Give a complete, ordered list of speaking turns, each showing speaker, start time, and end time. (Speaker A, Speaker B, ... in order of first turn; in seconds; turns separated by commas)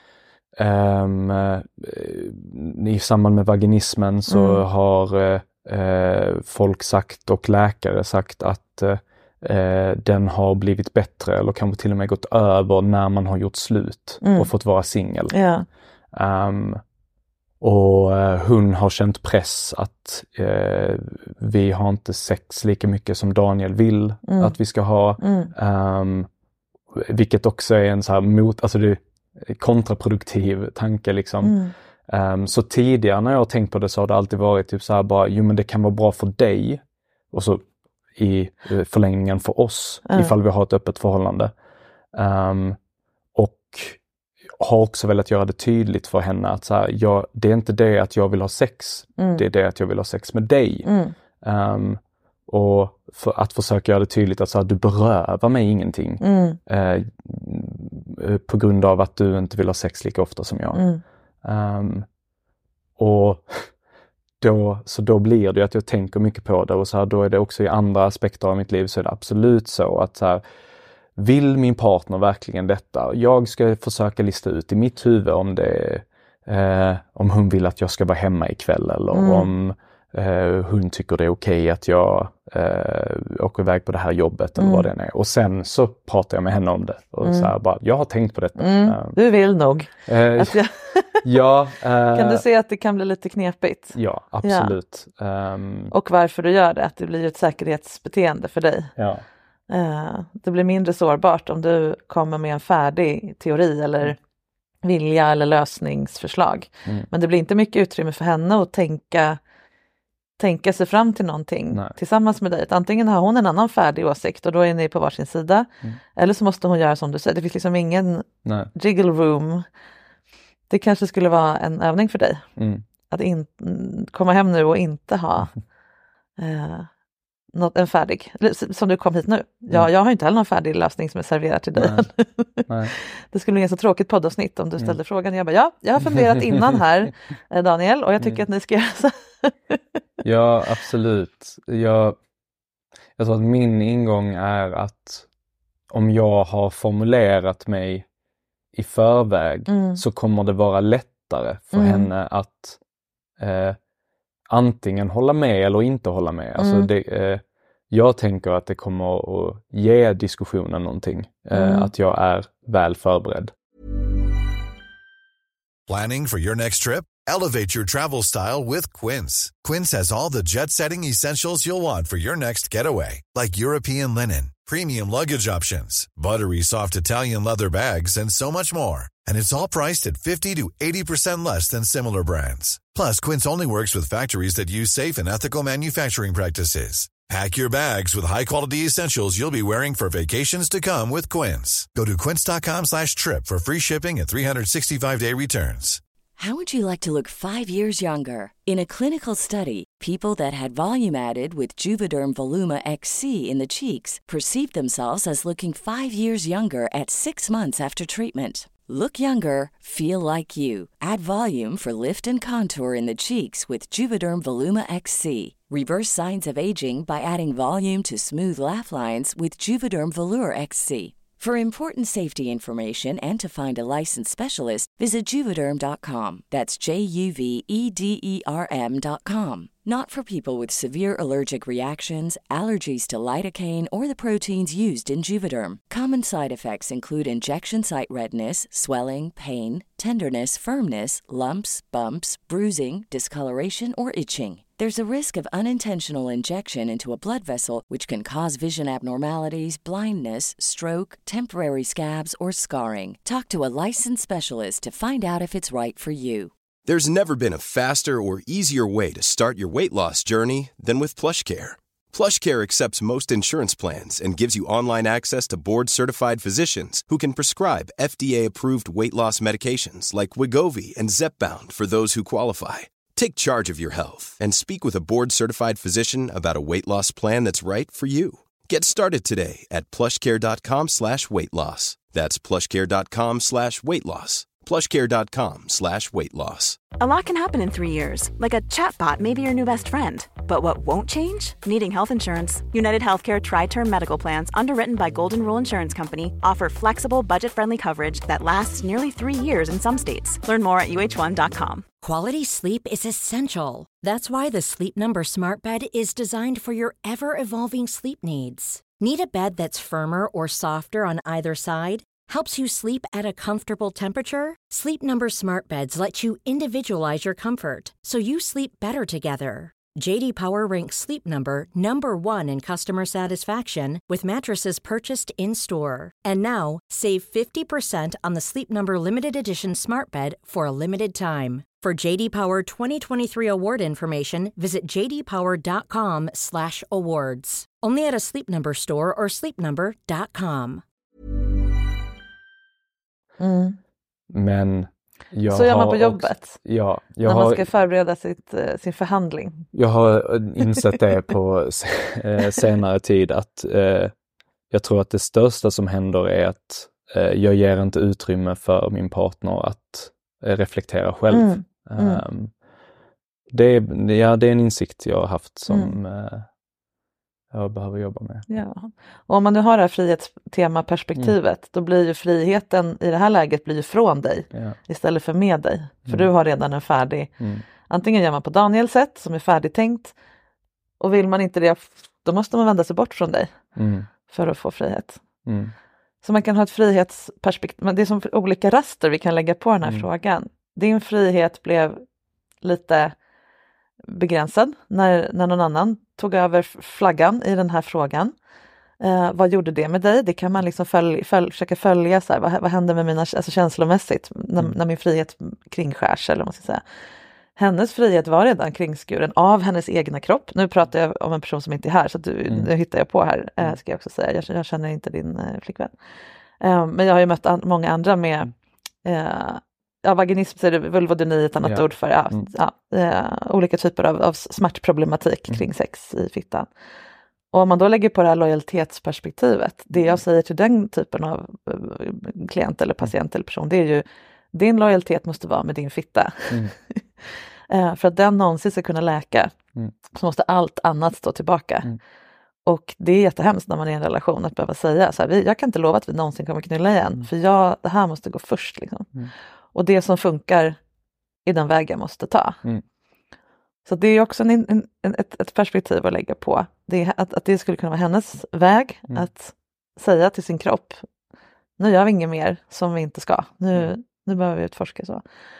Speaker A: 0.6-15.3, Speaker B: 4.3-4.6, Speaker B: 14.2-14.5, Speaker B: 15.3-15.7, Speaker A: 16.1-16.8, Speaker A: 17.6-26.3, Speaker B: 24.2-24.6, Speaker B: 25.2-25.5, Speaker A: 26.9-37.6, Speaker B: 31.4-31.7, Speaker A: 38.1-41.5, Speaker B: 40.1-40.3, Speaker A: 42.1-42.8, Speaker A: 43.3-44.0, Speaker A: 44.6-50.9, Speaker B: 49.2-49.4, Speaker B: 50.8-51.1, Speaker A: 51.4-60.8, Speaker B: 56.2-56.6, Speaker B: 60.7-61.0, Speaker A: 61.4-62.0, Speaker A: 63.0-63.7, Speaker A: 64.4-70.4, Speaker A: 71.2-89.2, Speaker B: 79.1-79.5, Speaker B: 84.6-84.9, Speaker B: 87.2-87.5, Speaker B: 88.6-91.2, Speaker A: 90.1-90.6, Speaker A: 91.2-92.4, Speaker B: 92.1-94.8, Speaker A: 93.9-95.9, Speaker B: 95.9-98.9, Speaker A: 99.0-99.2, Speaker B: 99.7-104.2, Speaker B: 104.8-109.4, Speaker B: 110.4-119.6, Speaker A: 118.4-118.7, Speaker B: 120.7-122.4, Speaker A: 122.5-122.8, Speaker B: 123.1-125.5, Speaker B: 126.4-126.9, Speaker B: 127.5-139.8, Speaker A: 131.7-132.0, Speaker A: 132.7-132.9, Speaker A: 136.0-136.8, Speaker A: 140.2-142.2, Speaker A: 143.2-145.3, Speaker A: 145.9-148.1, Speaker A: 148.7-152.8, Speaker B: 149.7-150.0, Speaker B: 151.7-152.1, Speaker A: 153.4-153.8, Speaker A: 154.5-163.5, Speaker B: 156.6-156.9, Speaker B: 161.5-161.9, Speaker C: 165.9-196.0, Speaker D: 196.4-256.5, Speaker E: 256.9-286.8, Speaker F: 287.0-301.8, Speaker G: 302.0-340.8, Speaker B: 343.4-343.8, Speaker A: 344.3-347.7, Speaker B: 345.5-346.6, Speaker B: 347.2-349.6, Speaker A: 349.7-354.1, Speaker A: 354.7-362.5, Speaker B: 361.3-362.2, Speaker A: 363.5-366.4, Speaker B: 365.7-365.9, Speaker A: 367.5-368.4, Speaker B: 368.5-377.3, Speaker A: 374.5-374.8, Speaker B: 377.9-380.1, Speaker B: 381.0-383.5, Speaker A: 383.7-384.1, Speaker B: 384.3-385.2, Speaker A: 385.4-385.7, Speaker B: 386.2-392.0, Speaker B: 392.6-393.1, Speaker B: 394.1-398.3, Speaker B: 399.0-406.8, Speaker B: 407.6-415.9, Speaker B: 416.6-418.5, Speaker B: 419.0-426.7, Speaker A: 421.6-422.4, Speaker B: 427.5-437.0, Speaker B: 437.7-439.5, Speaker B: 440.1-441.9, Speaker B: 442.6-449.1, Speaker B: 449.7-450.8, Speaker B: 451.4-452.6, Speaker B: 453.8-461.0, Speaker B: 461.8-465.2